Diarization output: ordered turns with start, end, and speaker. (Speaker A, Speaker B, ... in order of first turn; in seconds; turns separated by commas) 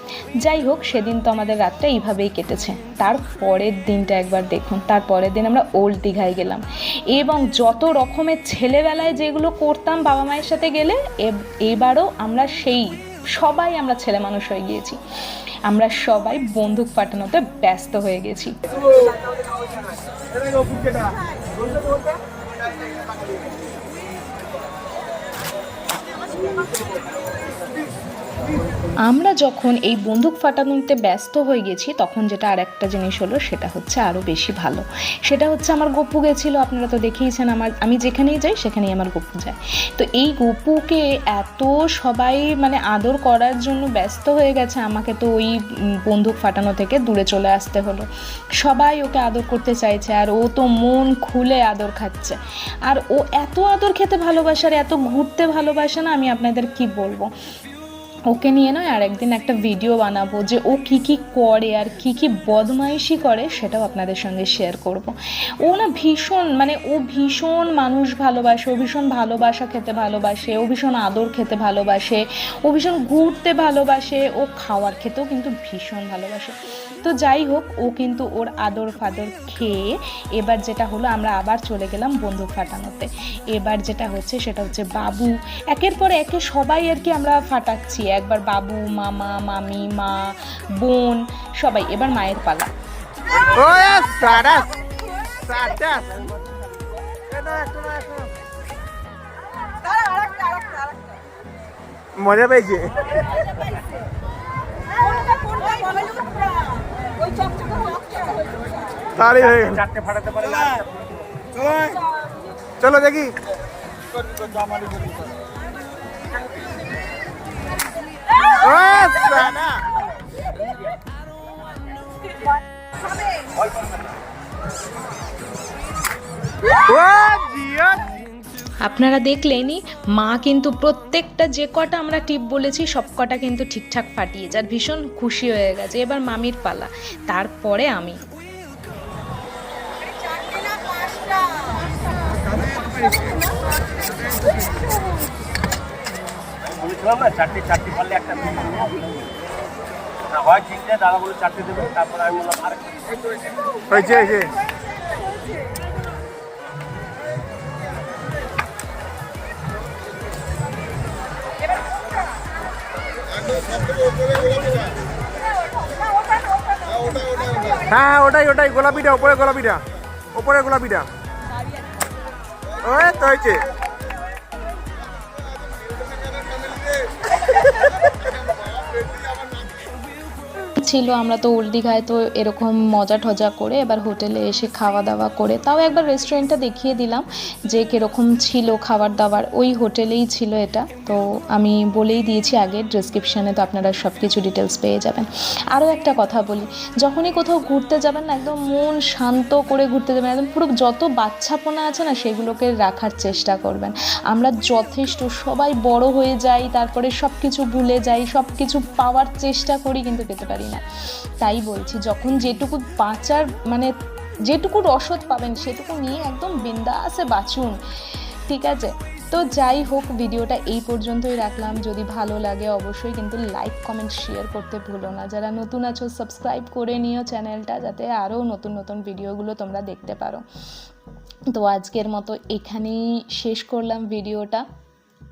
Speaker A: 0.4-15.0, Speaker A: 15.7-18.6, Speaker A: 29.1-48.1, Speaker A: 48.6-57.3, Speaker A: 58.3-92.7, Speaker B: 93.5-94.8, Speaker B: 95.4-96.3, Speaker B: 97.3-98.3, Speaker B: 102.2-103.1, Speaker B: 109.2-109.8, Speaker C: 109.4-111.1, Speaker B: 112.8-113.3, Speaker C: 114.6-115.1, Speaker B: 118.5-119.9, Speaker B: 126.8-128.0, Speaker A: 128.8-138.2, Speaker C: 146.7-149.1, Speaker C: 150.3-153.0, Speaker B: 153.9-154.5, Speaker B: 163.9-164.7, Speaker B: 167.0-171.1, Speaker B: 172.8-173.7, Speaker B: 178.8-179.1, Speaker A: 180.8-210.8, Speaker A: 211.4-213.9, Speaker A: 214.5-217.8, Speaker A: 218.5-230.4, Speaker A: 231.5-234.7